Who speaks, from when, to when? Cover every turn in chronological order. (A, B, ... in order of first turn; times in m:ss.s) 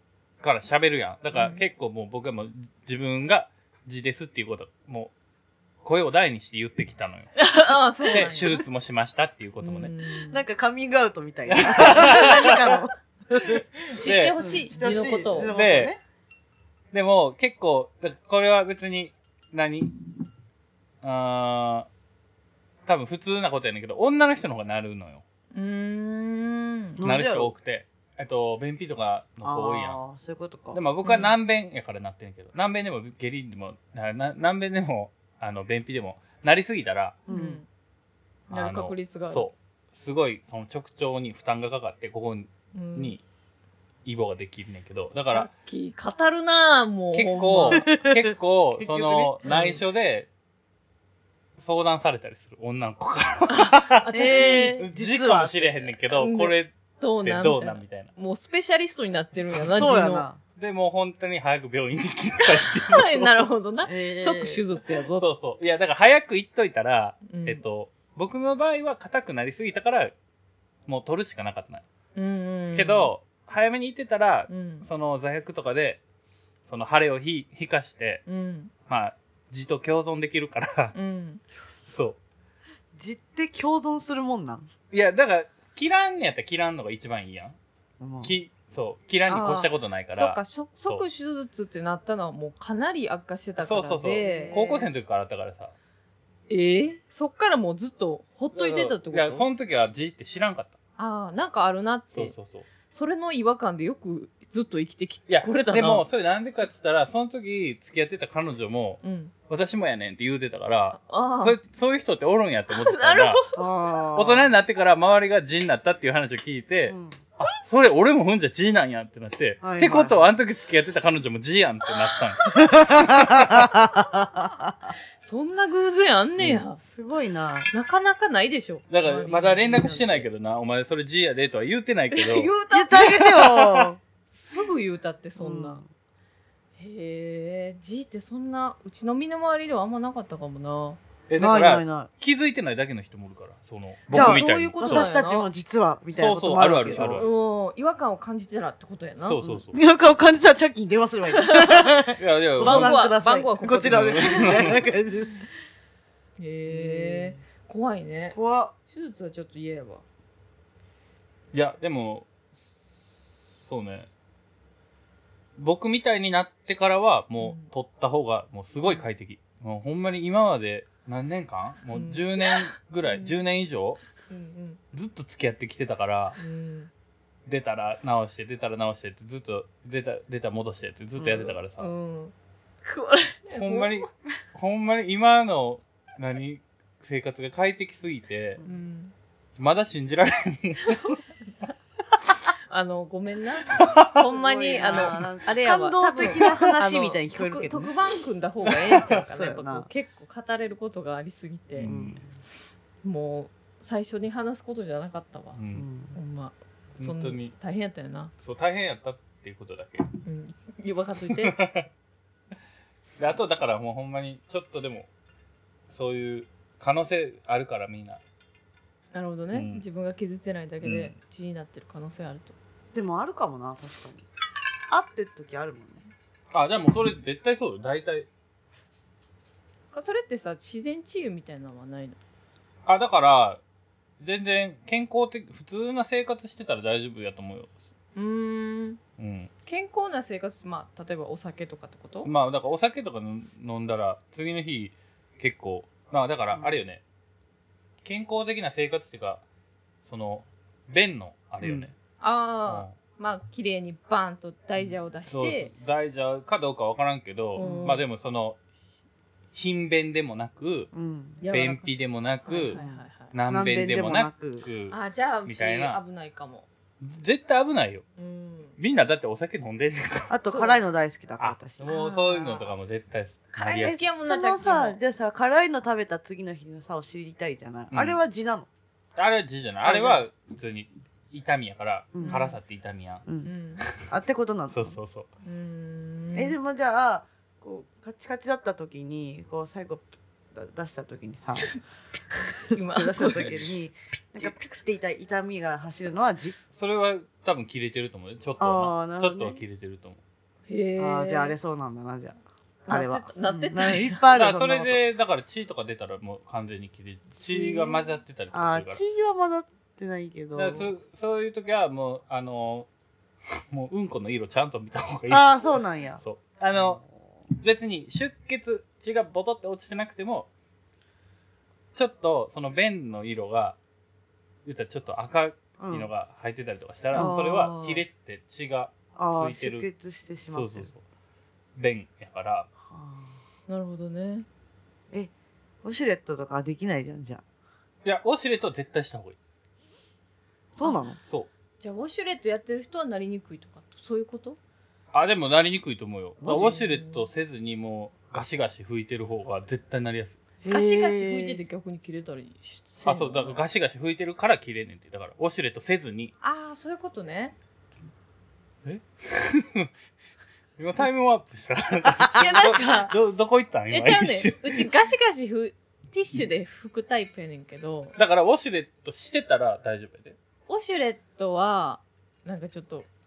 0:00.4-0:05.1 A
0:01.3-0:01.6 B
0:05.8-0:07.3 A
0:07.4-0:08.6 B
0:08.1-0:08.5 C
0:08.1-0:09.9 A
0:09.6-0:10.4 B
0:10.3-0:13.6 C
0:11.5-0:12.8 A
0:13.4-0:14.6 A
0:13.9-0:15.5 B
0:14.4-0:16.0 C
0:15.5-0:16.0 A
0:16.9-0:20.2 A
0:21.0-0:21.9 A
0:22.9-0:25.2 A
0:25.5-0:27.0 B
0:27.0-0:27.5 C
0:27.0-0:30.0 A
0:29.4-0:30.8 C
0:30.7-0:37.2 A
0:31.0-0:31.3 B
0:37.3-0:37.6 C
0:37.3-0:37.7 B
0:38.5-0:39.5 B
0:38.5-0:43.2 A
0:42.7-0:43.2 B
0:44.0-0:45.5 A
0:45.3-0:47.9 B
0:47.1-0:50.3 A
0:47.5-0:49.8 C
0:51.6-0:56.7 A
0:53.5-0:54.8 B
0:54.1-0:56.0 C
0:56.2-1:00.3 B
0:57.2-0:58.1 A
0:59.5-1:00.4 C
1:00.6-1:03.5 A
1:02.8-1:05.3 B
1:03.8-1:04.6 C
1:05.1-1:10.1 A
1:07.3-1:07.6 B
1:10.9-1:11.8 A
1:12.2-1:13.1 B
1:12.8-1:16.0 A
1:14.5-1:14.9 B
1:16.7-1:18.2 A
1:18.3-1:18.7 B
1:18.9-1:21.0 A
1:20.9-1:21.4 B
1:21.8-1:22.2 A
1:23.0-1:24.7 C
1:24.9-1:27.6 A
1:28.0-1:28.3 C
1:28.2-1:31.0 A
1:29.3-1:34.9 B
1:33.6-1:35.7 A
1:34.2-1:34.8 C
1:36.5-1:39.5 B
1:38.5-1:40.8 A
1:41.0-1:42.3 B
1:42.1-1:42.7 A
1:42.9-1:46.1 B
1:45.3-1:53.4 A
1:49.0-1:49.3 B
1:51.0-1:51.6 B
1:52.7-1:53.5 B
1:53.6-1:54.5 C
1:54.2-2:02.4 A
1:56.9-1:57.2 C
1:59.6-2:00.3 C
2:02.6-2:04.9 C
2:03.5-2:04.0 B
2:05.2-2:06.8 B
2:06.4-2:07.7 C
2:07.7-2:10.3 B
2:08.9-2:12.5 A
2:12.1-2:13.6 B
2:12.7-2:14.0 C
2:13.5-2:13.8 A
2:14.3-2:15.8 B
2:15.4-2:15.9 C
2:16.8-2:21.0 B
2:21.3-2:25.1 A
2:21.4-2:22.1 C
2:24.1-2:25.5 B
2:24.1-2:27.3 C
2:26.1-2:27.3 A
2:27.1-2:29.4 B
2:29.2-2:29.8 A
2:29.4-2:35.5 C
2:31.3-2:31.9 B
2:32.2-2:33.0 A
2:32.6-2:34.7 B
2:33.7-2:34.8 A
2:36.4-2:38.4 B
2:36.7-2:37.4 C
2:38.3-2:38.7 C
2:38.9-2:40.0 B
2:41.5-2:42.3 A
2:43.6-2:44.1 A
2:45.6-2:54.0 A
2:47.4-2:47.7 B
2:51.9-2:53.3 B
2:54.3-2:54.8 B
2:54.9-2:56.4 A
2:56.4-2:56.9 B
2:57.5-3:01.9 A
3:01.2-3:01.6 C
3:01.8-3:04.1 B
3:03.5-3:08.6 A
3:08.6-3:09.1 B
3:09.6-3:11.2 A
3:10.9-3:11.2 B
3:12.7-3:21.9 B
3:13.7-3:14.2 A
3:14.2-3:17.9 C
3:19.1-3:19.9 C
3:21.8-3:22.2 A
3:21.9-3:22.3 C
3:23.0-3:25.6 B
3:25.6-3:25.9 A
3:25.7-3:26.2 C
3:26.1-3:28.3 B
3:27.0-3:27.5 A
3:28.4-3:30.1 A
3:30.2-3:31.6 B
3:31.3-3:31.9 A
3:33.2-3:35.1 A
3:35.9-3:38.2 A
3:39.1-3:42.6 B
3:39.5-3:39.8 A
3:40.8-3:41.1 A
3:42.9-3:44.3 C
3:44.9-3:46.1 C
3:46.5-3:48.3 A
3:49.9-3:52.2 B
3:52.9-3:53.6 A
3:54.2-3:57.8 A
3:58.2-3:59.0 B
3:59.2-3:59.5 A
3:59.7-4:02.3 B
4:02.2-4:07.0 A
4:08.0-4:09.4 A
4:10.0-4:11.9 A
4:11.6-4:11.9 C
4:12.2-4:15.7 B
4:12.7-4:13.0 A
4:15.3-4:18.6 A
4:17.6-4:18.0 B
4:17.6-4:17.9 C
4:19.5-4:20.9 A
4:20.9-4:21.4 C
4:21.4-4:23.3 B
4:21.5-4:22.8 A
4:22.7-4:24.7 C
4:23.3-4:26.0 A
4:24.9-4:26.7 B
4:27.0-4:28.0 A
4:28.2-4:28.8 B
4:28.8-4:30.4 A
4:30.3-4:32.7 C
4:30.5-4:30.8 B
4:31.4-4:34.0 A
4:33.5-4:35.0 B
4:33.8-4:38.7 C
4:37.9-4:38.2 A
4:39.2-4:43.2 A
4:39.8-4:40.2 C
4:42.1-4:42.4 C
4:42.2-4:42.6 B
4:43.3-4:45.0 C
4:43.4-4:43.8 B
4:44.7-4:45.3 A
4:45.4-4:46.6 B
4:46.4-4:51.7 C
4:52.7-4:53.5 B
4:52.7-4:56.6 C
4:53.3-4:53.6 A
4:56.7-5:00.2 A
4:58.6-4:59.6 C
5:00.7-5:01.6 B
5:01.0-5:05.0 C
5:02.9-5:04.2 B
5:04.3-5:09.0 A
5:07.4-5:10.9 C
5:10.6-5:12.9 A
5:13.7-5:20.5 A
5:15.3-5:16.2 C
5:22.0-5:23.8 A
5:24.6-5:29.9 A
5:25.8-5:26.1 C
5:27.1-5:28.0 B
5:27.1-5:27.6 C
5:29.2-5:30.9 C
5:30.5-5:31.0 A
5:31.8-5:32.7 A
5:32.8-5:33.4 C
5:33.7-5:34.5 B
5:35.8-5:37.4 C
5:38.0-5:39.4 A
5:40.7-5:41.2 C
5:41.2-5:41.5 A
5:41.8-5:44.6 B
5:45.1-5:50.4 A
5:46.4-5:46.8 C
5:46.5-5:47.3 B
5:50.6-5:51.6 C
5:50.7-5:53.6 B
5:53.0-5:56.3 A
5:56.4-5:57.5 B
5:58.8-5:59.9 A
6:00.8-6:04.9 A
6:02.4-6:03.2 B
6:03.9-6:08.2 B
6:08.2-6:10.4 A
6:10.7-6:13.1 B